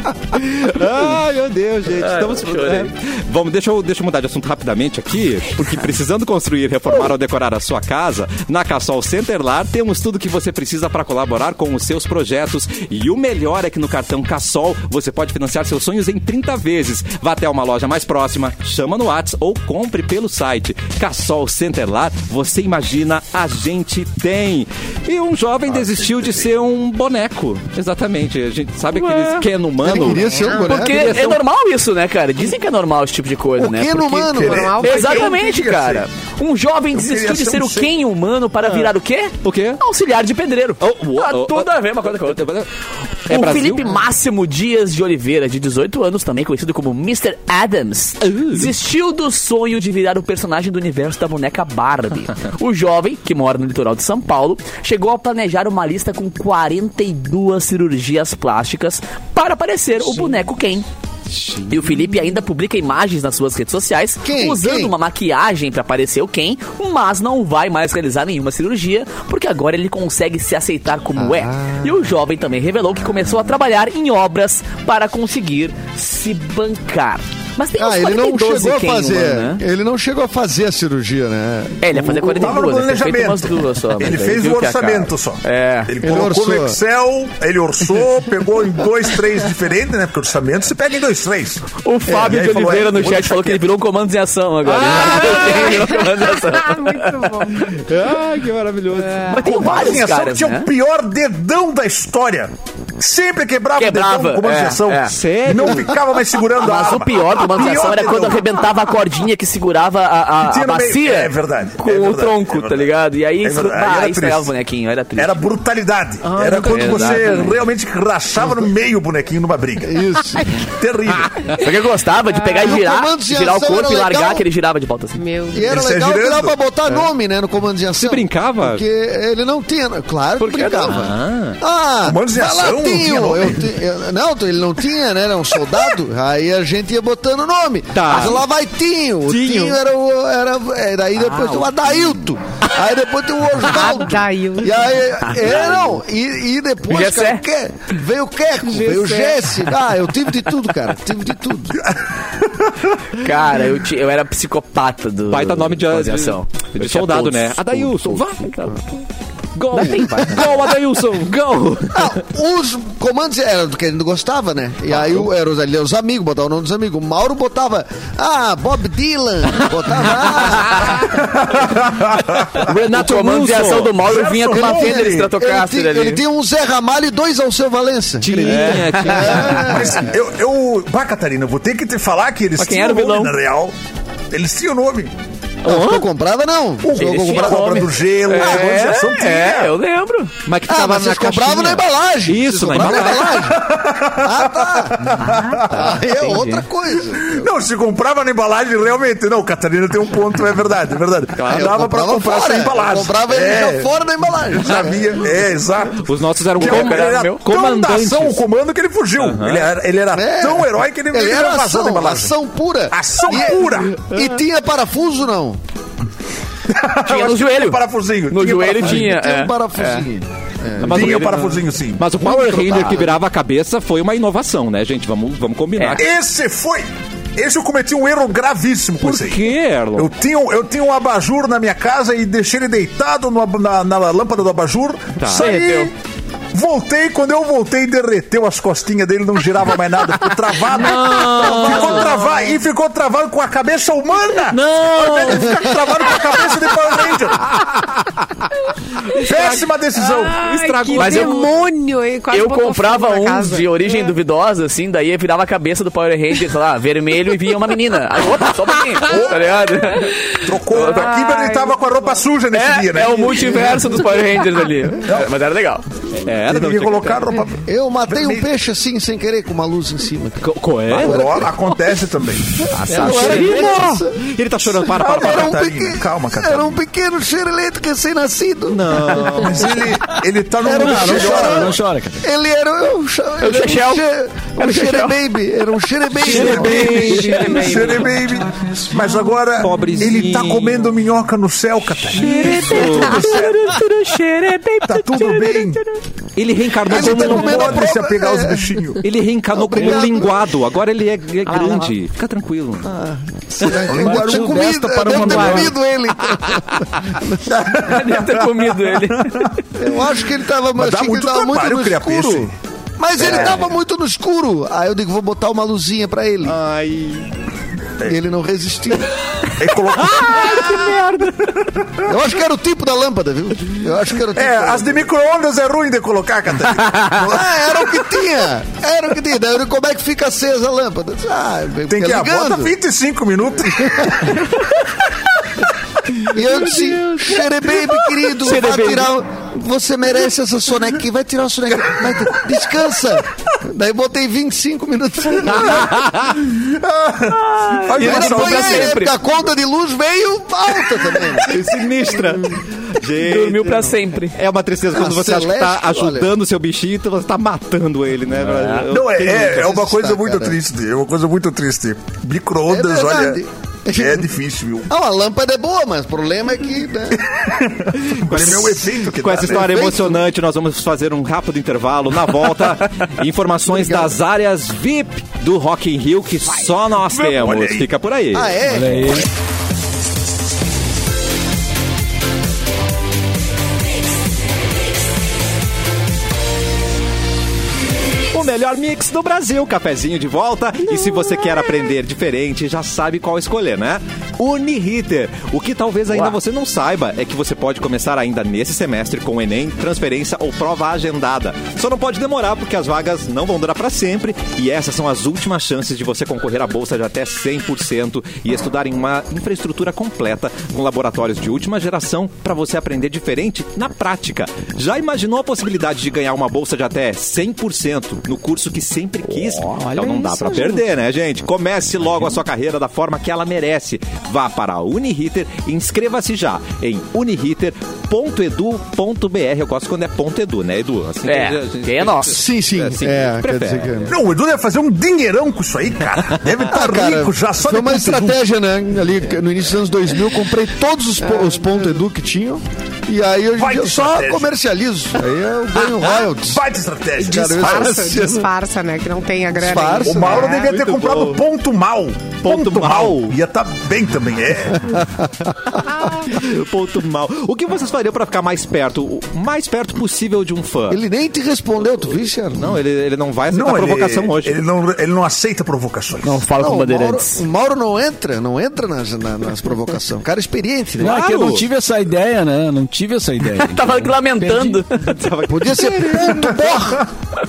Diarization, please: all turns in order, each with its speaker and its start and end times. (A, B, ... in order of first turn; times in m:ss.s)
0:00.3-0:31.4 A
0:01.9-0:02.9 B
0:25.7-0:26.4 C
0:28.9-0:29.4 B
0:29.8-0:31.1 D
0:30.4-0:30.8 E
0:30.5-0:42.5 B
0:33.6-0:34.8 D
0:34.3-0:36.1 C
0:34.4-0:35.4 E
0:36.9-0:37.9 C
0:38.6-0:38.9 A
0:39.4-0:39.8 A
0:40.8-0:42.7 A
0:43.2-0:43.9 A
0:43.3-1:00.8 B
0:48.2-0:48.7 A
1:01.4-1:01.8 A
1:01.7-1:19.6 B
1:04.2-1:04.9 D
1:11.1-1:12.1 D
1:17.8-1:22.6 D
1:21.8-1:25.9 B
1:22.4-1:33.6 C
1:26.0-1:26.8 D
1:31.8-1:37.3 B
1:34.7-1:35.9 A
1:35.1-1:37.7 E
1:37.6-1:39.9 A
1:38.9-1:39.4 E
1:39.3-1:40.7 B
1:39.4-1:48.5 C
1:43.8-1:45.2 B
1:45.1-1:46.0 A
1:46.6-1:55.5 B
1:50.4-1:52.9 C
1:53.4-1:54.5 C
1:55.2-2:00.0 C
1:56.2-1:57.3 E
1:56.5-1:57.6 B
1:59.8-2:00.4 D
2:00.7-2:01.6 C
2:01.5-2:05.2 B
2:02.3-2:02.7 E
2:02.5-2:04.4 D
2:05.2-2:05.7 E
2:05.5-2:31.8 D
2:05.7-2:06.5 C
2:08.0-2:08.8 A
2:10.4-2:11.0 B
2:10.9-2:11.6 A
2:12.0-2:13.6 C
2:17.9-2:18.4 A
2:19.3-2:19.8 A
2:23.6-2:24.8 E
2:25.2-2:25.8 B
2:26.9-2:27.4 B
2:28.7-2:29.2 B
2:33.2-2:38.8 B
2:35.3-2:38.8 A
2:39.5-2:42.2 A
2:39.7-2:40.8 B
2:41.9-2:50.8 D
2:44.9-2:45.2 A
2:50.6-2:51.0 A
2:51.1-2:52.6 C
2:52.6-2:54.0 A
2:52.6-2:56.2 B
2:54.0-2:55.3 C
2:54.5-3:00.2 D
2:58.2-3:00.0 A
2:58.4-2:59.7 B
2:59.6-3:03.7 C
3:02.6-3:03.3 B
3:04.3-3:05.1 C
3:05.6-3:07.7 D
3:05.6-3:06.0 A
3:06.8-3:09.7 C
3:06.9-3:10.3 B
3:10.4-3:13.6 A
3:10.7-3:17.5 D
3:12.8-3:15.8 C
3:15.3-3:16.6 B
3:17.1-3:23.9 C
3:21.4-3:21.8 A
3:21.5-3:25.2 D
3:24.5-3:32.3 C
3:26.0-3:28.4 A
3:26.6-3:27.4 B
3:29.2-3:29.7 A
3:30.1-3:35.6 D
3:32.9-3:34.0 C
3:36.7-3:39.1 C
3:37.0-3:40.1 B
3:38.8-3:41.2 D
3:40.8-3:46.1 A
3:40.8-3:42.1 C
3:42.2-3:43.0 D
3:45.8-3:46.0 B
3:46.0-3:55.9 C
3:49.0-3:50.1 A
3:55.2-3:55.5 A
3:55.3-3:55.9 B
3:56.5-4:07.6 C
4:00.7-4:02.3 A
4:04.5-4:06.6 A
4:09.1-4:09.6 A
4:09.2-4:10.4 C
4:10.0-4:14.1 E
4:10.4-4:11.5 A
4:10.9-4:11.4 B
4:12.3-4:21.1 B
4:19.1-4:19.7 C
4:20.4-4:23.9 C
4:20.8-4:21.8 E
4:22.5-4:25.8 B
4:26.1-4:27.4 A
4:26.4-4:28.4 C
4:27.6-4:31.5 D
4:30.4-4:31.4 A
4:30.9-4:32.6 C
4:32.8-4:34.0 B
4:32.8-4:35.6 A
4:32.8-4:34.2 D
4:34.8-4:39.5 D
4:34.9-4:36.8 C
4:38.7-4:39.8 A
4:39.3-4:41.7 C
4:40.6-4:47.1 D
4:40.7-4:42.3 F
4:43.4-4:44.1 B
4:44.6-4:45.2 B
4:46.2-4:47.4 A
4:46.2-4:47.6 F
4:46.4-4:53.8 C
4:46.6-4:48.0 B
4:47.1-4:47.9 E
4:49.6-4:50.9 A
4:52.1-4:53.4 A
4:52.1-4:55.9 B
4:54.8-4:55.8 C
4:56.4-4:57.9 A
4:56.8-4:58.9 D
4:56.8-4:59.0 C
4:59.0-5:02.9 A
4:59.5-5:00.4 D
5:02.8-5:08.0 D
5:03.6-5:04.3 A
5:03.7-5:05.7 C
5:04.1-5:05.7 F
5:07.8-5:09.6 B
5:07.9-5:08.6 C
5:09.8-5:16.6 D
5:10.7-5:12.5 C
5:13.2-5:13.6 A
5:16.4-5:17.3 A
5:18.0-5:19.1 D
5:19.6-5:21.8 C
5:20.1-5:20.8 A
5:22.0-5:25.1 D
5:24.3-5:28.0 C
5:27.1-5:32.8 D
5:31.9-5:34.4 C
5:33.8-5:34.3 D
5:36.2-5:46.0 D
5:38.4-5:39.1 B
5:45.7-5:46.4 A
5:46.4-5:49.0 C
5:47.3-5:49.1 B
5:47.9-5:51.5 D
5:51.4-5:59.7 A
5:53.1-5:54.3 B
5:54.9-5:56.3 D
5:58.4-5:58.8 B
5:58.9-6:03.4 C
5:59.2-6:00.6 D
6:02.7-6:04.3 D
6:03.9-6:04.9 C
6:04.9-6:07.2 D
6:07.2-6:09.9 C
6:08.1-6:18.6 A
6:09.5-6:10.2 D
6:13.7-6:14.1 D
6:17.1-6:17.9 C
6:18.3-6:19.1 D
6:18.6-6:19.2 F
6:28.3-7:14.1 A
6:59.4-7:00.8 B
7:11.2-7:12.4 B
7:12.3-7:14.1 D
7:14.1-7:18.4 C
7:16.7-7:26.6 D
7:21.2-7:21.9 E
7:23.5-7:24.5 C
7:26.3-7:27.9 C
7:27.2-7:28.5 D
7:27.2-7:30.6 E
7:29.5-7:30.5 D
7:30.0-7:35.0 C
7:30.4-7:31.4 A
7:32.4-7:33.4 A
7:35.9-7:36.3 E
7:36.2-7:41.0 A
7:40.9-7:42.8 D
7:42.6-7:44.6 A
7:43.5-7:46.4 C
7:46.2-7:47.4 B
7:46.6-7:51.2 D
7:51.0-7:54.8 F
7:51.0-7:51.6 A
7:53.6-7:55.2 B
7:54.9-7:56.7 A
7:55.4-7:57.1 D